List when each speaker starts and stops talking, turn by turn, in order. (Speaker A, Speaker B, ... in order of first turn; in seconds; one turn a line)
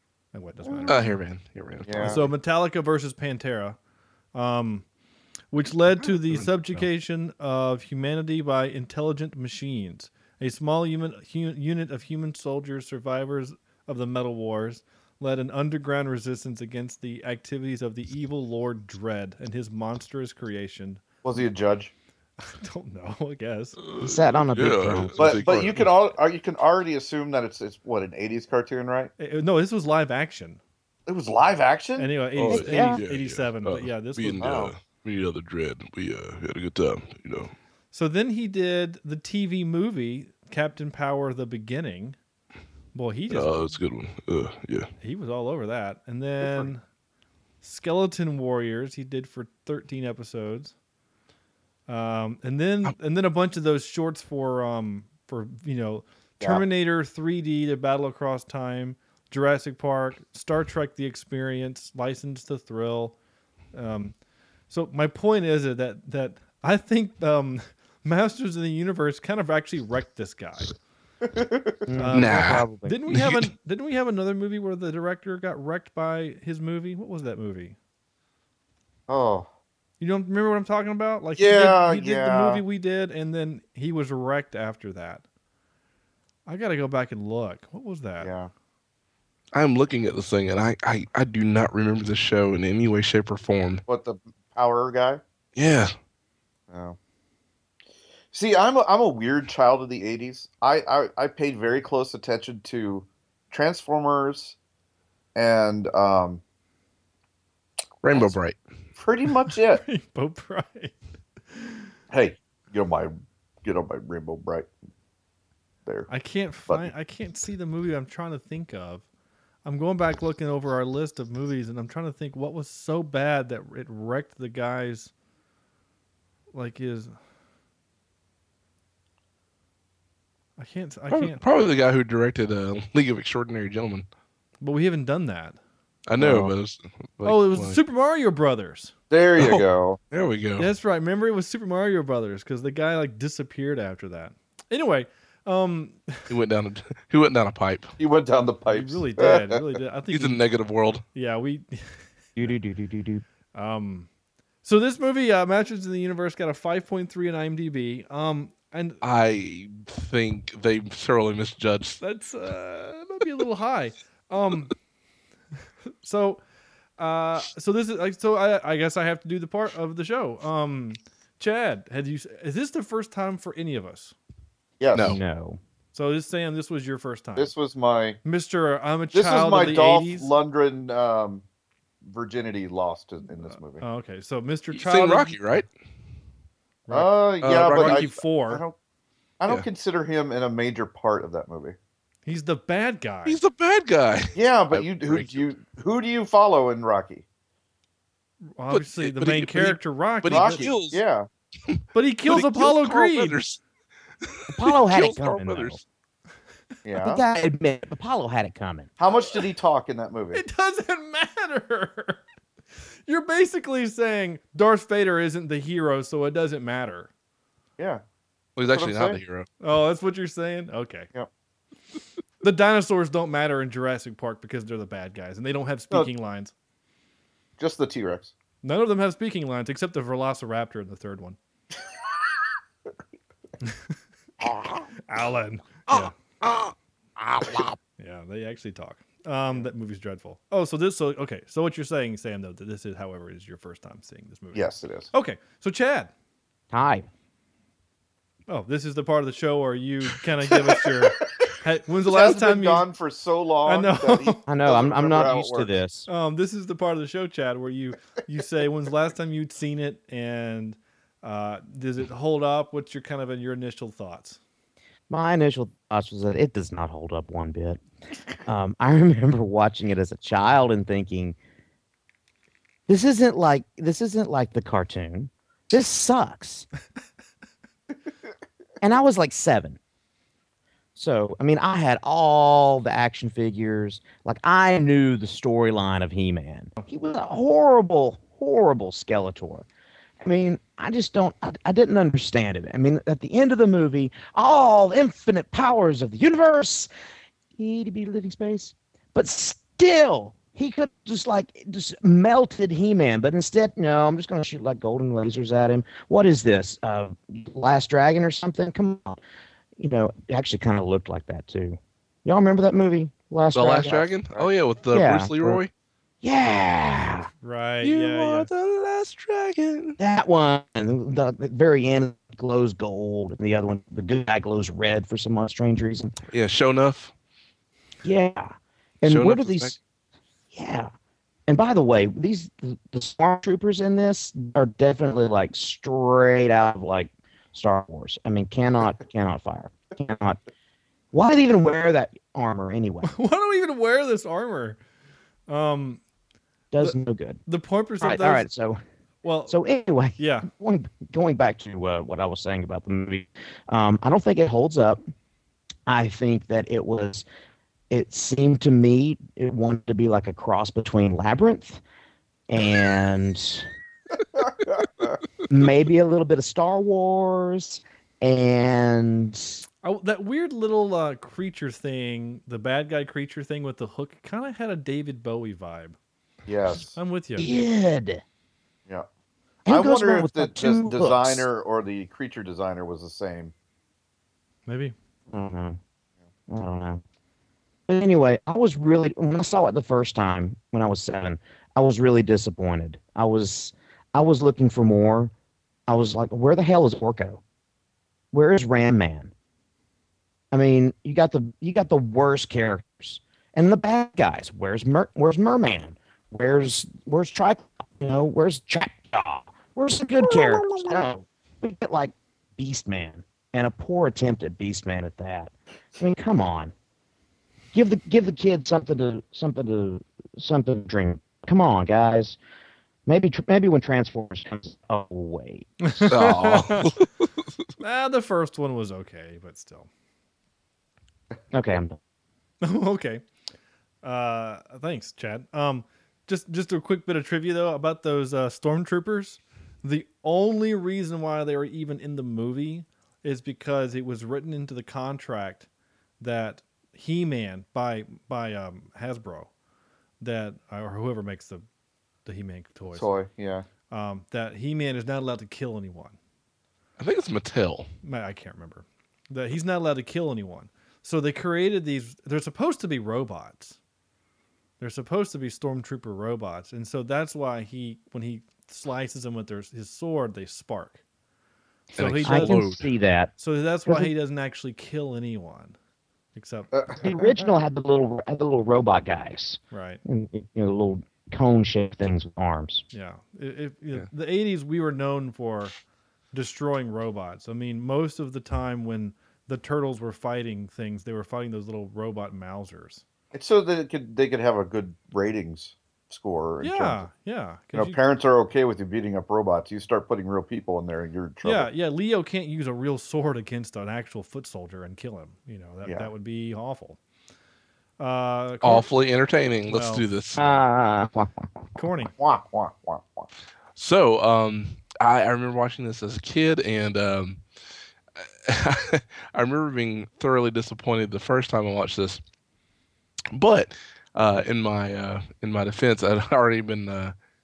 Speaker A: 0.3-1.0
Speaker B: 0.9-2.2
Speaker C: 1.8-2.3
Speaker A: 2.0-3.8
Speaker A: 4.3-4.8
Speaker A: 5.5-21.0
Speaker B: 6.0-6.9
Speaker C: 21.2-21.9
Speaker A: 22.4-23.8
Speaker B: 23.9-25.9
Speaker D: 24.0-25.4
Speaker C: 25.2-29.1
Speaker A: 29.2-30.6
Speaker C: 31.1-32.1
Speaker A: 32.0-34.4
Speaker B: 32.4-37.5
Speaker D: 32.5-33.0
Speaker C: 34.4-34.7
Speaker A: 37.9-42.2
Speaker A: 42.9-43.8
Speaker B: 43.3-44.9
Speaker A: 45.0-46.8
Speaker C: 46.4-46.7
Speaker A: 47.6-50.7
Speaker A: 51.9-63.1
Speaker A: 63.7-64.1
Speaker A: 64.7-70.7
Speaker C: 71.3-71.8
Speaker D: 71.9-73.0
Speaker A: 72.0-77.8
Speaker B: 72.1-73.5
Speaker C: 79.1-79.5
Speaker A: 80.0-85.2
Speaker C: 81.3-82.6
Speaker A: 86.5-88.3
Speaker C: 88.2-88.5
Speaker B: 89.5-93.8
Speaker C: 93.9-95.2
Speaker B: 95.5-95.9
Speaker C: 96.7-97.0
Speaker C: 98.3-104.5
Speaker C: 105.3-106.4
Speaker B: 108.0-108.6
Speaker C: 109.0-109.8
Speaker A: 109.8-111.0
Speaker A: 111.5-111.9
Speaker C: 112.1-113.1
Speaker C: 113.6-114.7
Speaker A: 116.1-119.0
Speaker A: 119.6-125.1
Speaker A: 126.5-127.1
Speaker A: 130.6-131.4
Speaker B: 131.1-134.1
Speaker A: 134.6-135.6
Speaker B: 136.1-137.8
Speaker C: 136.2-136.5
Speaker A: 137.2-138.9
Speaker C: 139.1-140.0
Speaker B: 139.3-140.7
Speaker A: 140.6-146.2
Speaker B: 146.3-148.0
Speaker C: 148.0-149.6
Speaker A: 148.7-150.4
Speaker B: 150.1-151.0
Speaker A: 151.1-152.5
Speaker D: 152.4-153.2
Speaker A: 153.5-154.1
Speaker A: 154.6-159.0
Speaker B: 159.0-162.0
Speaker A: 162.0-164.7
Speaker A: 166.0-166.4
Speaker A: 167.0-174.1
Speaker C: 174.8-175.2
Speaker B: 174.9-175.2
Speaker D: 174.9-175.6
Speaker A: 175.9-177.5
Speaker C: 177.3-178.2
Speaker A: 178.2-180.3
Speaker C: 179.1-181.4
Speaker C: 182.1-183.8
Speaker A: 183.8-185.3
Speaker B: 184.7-185.7
Speaker A: 186.9-188.6
Speaker C: 186.9-188.8
Speaker B: 187.4-188.1
Speaker C: 189.4-191.8
Speaker A: 192.2-193.4
Speaker B: 193.2-195.5
Speaker C: 194.3-197.2
Speaker A: 198.6-200.7
Speaker B: 198.7-201.0
Speaker C: 200.3-201.3
Speaker B: 201.7-203.6
Speaker A: 201.9-203.4
Speaker B: 204.4-205.8
Speaker D: 204.5-205.8
Speaker C: 206.8-207.2
Speaker D: 207.0-208.9
Speaker C: 209.0-210.4
Speaker A: 210.3-212.2
Speaker A: 213.1-217.1
Speaker B: 218.6-219.5
Speaker C: 218.7-219.2
Speaker A: 219.6-221.1
Speaker A: 222.4-226.5
Speaker C: 227.6-228.3
Speaker A: 228.6-231.4
Speaker A: 235.1-236.1
Speaker D: 237.2-237.8
Speaker A: 238.0-246.1
Speaker C: 244.5-245.1
Speaker D: 246.7-247.1
Speaker A: 248.5-252.9
Speaker C: 250.7-251.4
Speaker C: 252.1-255.7
Speaker A: 253.6-254.4
Speaker D: 254.5-256.1
Speaker A: 256.1-264.4
Speaker D: 265.1-267.8
Speaker D: 268.4-271.4
Speaker D: 272.9-276.6
Speaker D: 278.8-279.8
Speaker D: 280.9-289.6
Speaker D: 290.2-296.9
Speaker D: 297.6-309.2
Speaker D: 309.8-314.0
Speaker B: 313.5-315.7
Speaker C: 313.9-314.5
Speaker D: 314.9-315.6
Speaker D: 316.2-317.3
Speaker A: 317.4-318.5
Speaker B: 317.8-320.0
Speaker D: 320.0-326.1
Speaker B: 326.3-327.1
Speaker D: 328.0-329.8
Speaker B: 329.0-329.8
Speaker D: 330.5-330.9
Speaker D: 331.5-340.4
Speaker D: 341.1-343.1
Speaker A: 343.1-344.8
Speaker A: 345.5-346.0
Speaker D: 346.7-347.4
Speaker A: 347.5-348.5
Speaker D: 348.0-348.8
Speaker A: 349.2-349.6
Speaker D: 349.5-355.0
Speaker A: 350.2-350.5
Speaker D: 355.9-357.2
Speaker D: 357.9-361.8
Speaker D: 362.5-363.7
Speaker C: 364.4-365.1
Speaker D: 365.5-369.6
Speaker A: 369.8-375.9
Speaker C: 376.5-376.9
Speaker A: 376.9-377.5
Speaker D: 377.4-378.2
Speaker D: 379.6-381.5
Speaker C: 379.6-383.5
Speaker A: 384.7-384.9
Speaker D: 385.3-385.8
Speaker D: 386.5-387.0
Speaker D: 387.9-395.3
Speaker D: 395.9-397.4
Speaker D: 398.3-399.3
Speaker D: 400.5-416.7
Speaker C: 410.2-410.9
Speaker D: 417.7-422.4
Speaker D: 423.1-425.7
Speaker A: 425.8-426.9
Speaker B: 426.1-427.3
Speaker A: 427.8-429.9
Speaker D: 431.5-432.0
Speaker A: 432.6-433.2
Speaker A: 434.0-445.7
Speaker A: 446.2-449.5
Speaker A: 450.2-451.6
Speaker A: 452.2-453.1
Speaker C: 452.9-453.7
Speaker A: 453.9-456.1
Speaker B: 457.0-457.9
Speaker A: 458.0-463.8
Speaker A: 464.8-471.0
Speaker A: 471.9-472.6
Speaker B: 471.9-472.8
Speaker D: 472.2-473.3
Speaker A: 473.4-475.8
Speaker A: 476.3-476.7
Speaker C: 476.7-477.1
Speaker D: 477.0-482.8
Speaker A: 479.7-480.0
Speaker A: 482.9-485.7
Speaker A: 486.3-493.0
Speaker C: 493.3-497.0
Speaker A: 496.6-498.0
Speaker C: 497.7-501.7
Speaker A: 501.4-507.0
Speaker A: 508.0-508.9
Speaker B: 508.6-510.4
Speaker A: 509.7-510.0
Speaker D: 510.4-511.5
Speaker A: 511.8-512.1
Speaker C: 512.2-513.3
Speaker B: 513.8-517.4
Speaker B: 518.2-522.2
Speaker B: 523.3-527.1